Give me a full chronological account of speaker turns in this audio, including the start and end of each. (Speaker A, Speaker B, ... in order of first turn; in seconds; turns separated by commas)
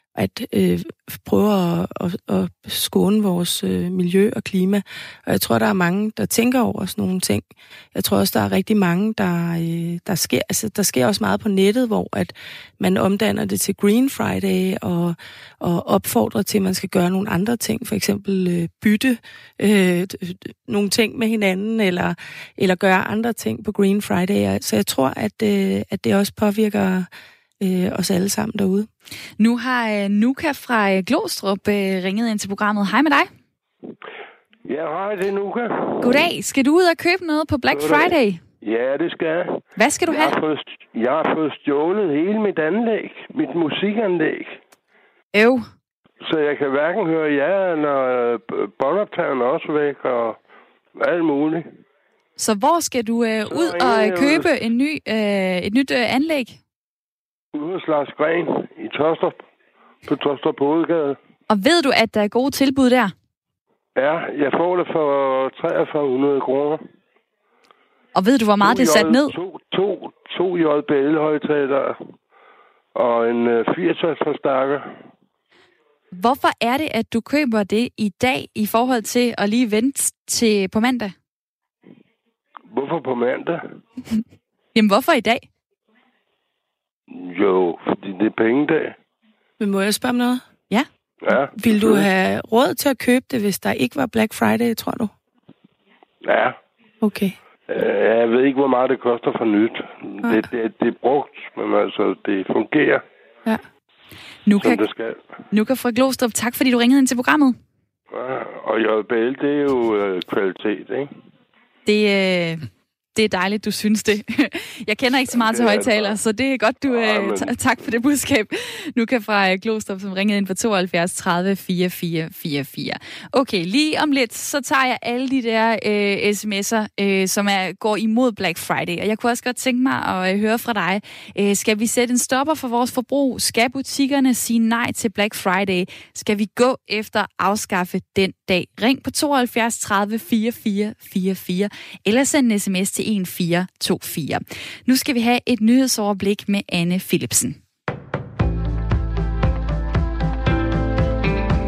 Speaker A: 0.1-27.1, Speaker A: 27.6-28.9, Speaker B: 29.4-33.3, Speaker C: 34.7-36.3, Speaker B: 36.0-38.4, Speaker C: 37.7-44.6, Speaker B: 39.8-40.4, Speaker B: 45.3-45.7, Speaker C: 46.2-50.4, Speaker C: 51.0-51.7, Speaker B: 52.4-56.6, Speaker C: 53.5-54.5, Speaker C: 57.5-59.5, Speaker C: 60.0-61.2, Speaker B: 61.5-63.1, Speaker C: 64.0-66.8, Speaker B: 68.2-69.3, Speaker C: 68.6-72.0, Speaker C: 73.0-75.0, Speaker B: 76.1-81.1, Speaker C: 82.7-83.6, Speaker B: 84.8-85.5, Speaker C: 87.1-89.0, Speaker A: 89.6-90.4, Speaker C: 91.2-92.1, Speaker A: 91.6-95.1, Speaker C: 96.2-96.6, Speaker A: 97.0-97.4, Speaker C: 97.7-103.0, Speaker B: 104.5-104.9, Speaker C: 104.6-105.2, Speaker B: 105.5-107.6, Speaker C: 108.1-111.1, Speaker B: 111.9-147.6, Speaker C: 115.3-116.2, Speaker C: 116.8-118.0